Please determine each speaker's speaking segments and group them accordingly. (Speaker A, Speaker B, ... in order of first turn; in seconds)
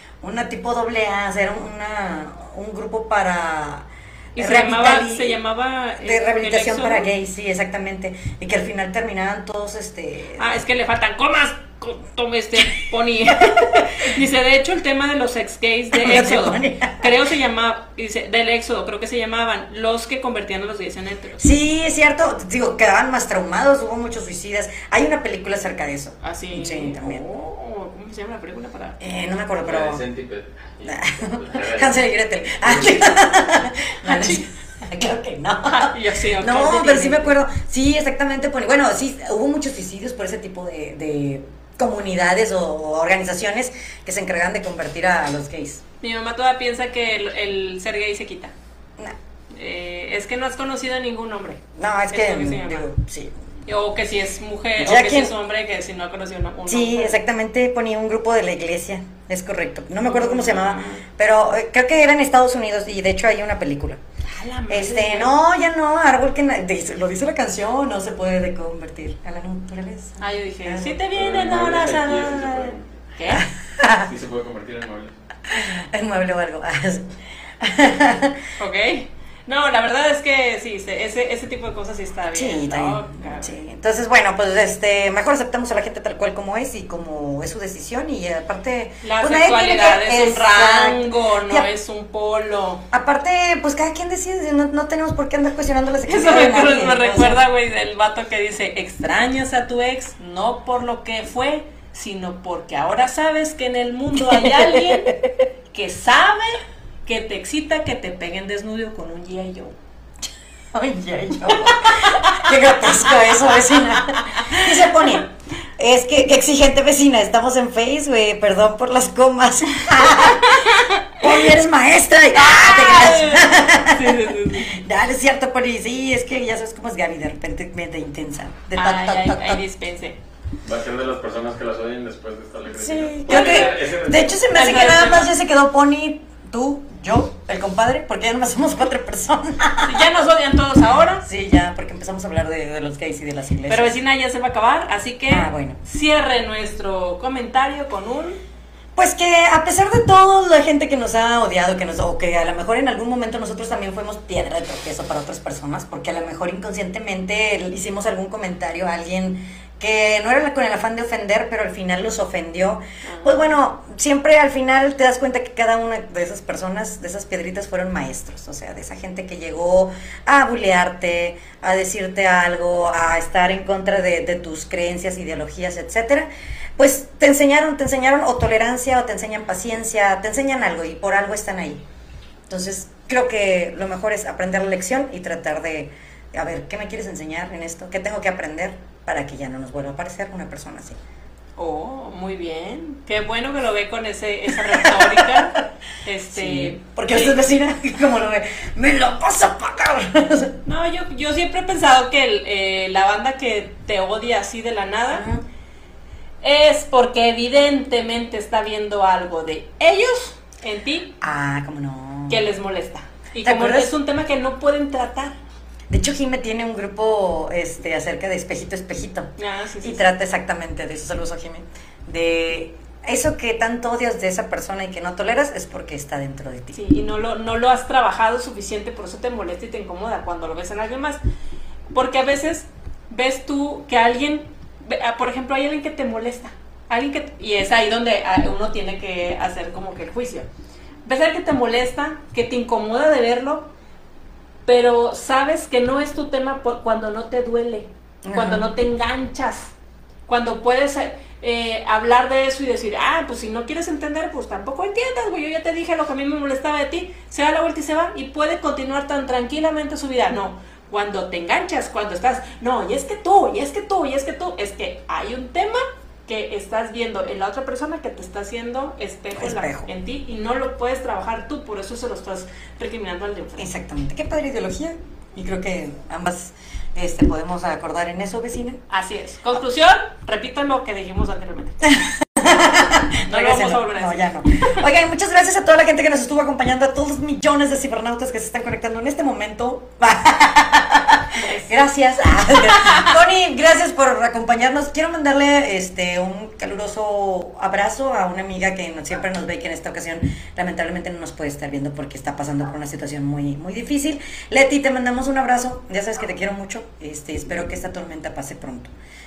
Speaker A: 0.2-5.4, 6.0-10.6, 15.9-17.2, 21.4-27.2, 29.0-30.0, 30.8-45.8, 51.8-53.3, 54.8-55.3, 56.7-64.0, 64.7-71.0, 73.3-74.1, 75.5-77.1, 77.6-78.4, 82.3-91.7, 92.9-97.4, 104.2-105.3, 110.7-129.6, 132.7-140.1, 141.2-144.0, 145.3-145.8, 148.9-181.8, 182.5-191.0, 194.5-195.5, 196.3-200.6, 205.1-205.4, 211.2-212.4, 213.4-213.9, 215.9-219.3, 219.8-226.8, 248.2-248.6, 269.3-269.9, 273.6-278.8, 281.8-308.9
Speaker B: 4.3-7.1, 10.4-21.5, 26.2-29.0, 34.0-34.4, 35.6-37.3, 46.0-48.5, 49.5-52.9, 53.6-57.2, 60.0-61.0, 64.3-65.3, 70.2-73.4, 78.6-83.5, 89.0-92.8, 96.1-105.2, 105.7-109.7, 111.5-115.2, 119.9-121.5, 122.3-124.8, 128.8-130.2, 133.3-133.8, 134.5-135.3, 139.8-141.2, 143.7-148.4, 163.0-163.5, 191.6-197.4, 200.6-205.2, 206.4-211.1, 212.3-215.3, 219.4-220.1, 226.7-231.2, 231.9-240.5, 241.0-243.7, 244.7-249.7, 250.3-273.7, 278.9-281.8, 283.2-284.8, 291.3-291.7, 292.7-293.1
Speaker C: 29.6-32.0, 32.6-33.0, 71.1-73.0, 74.0-75.1, 130.6-134.3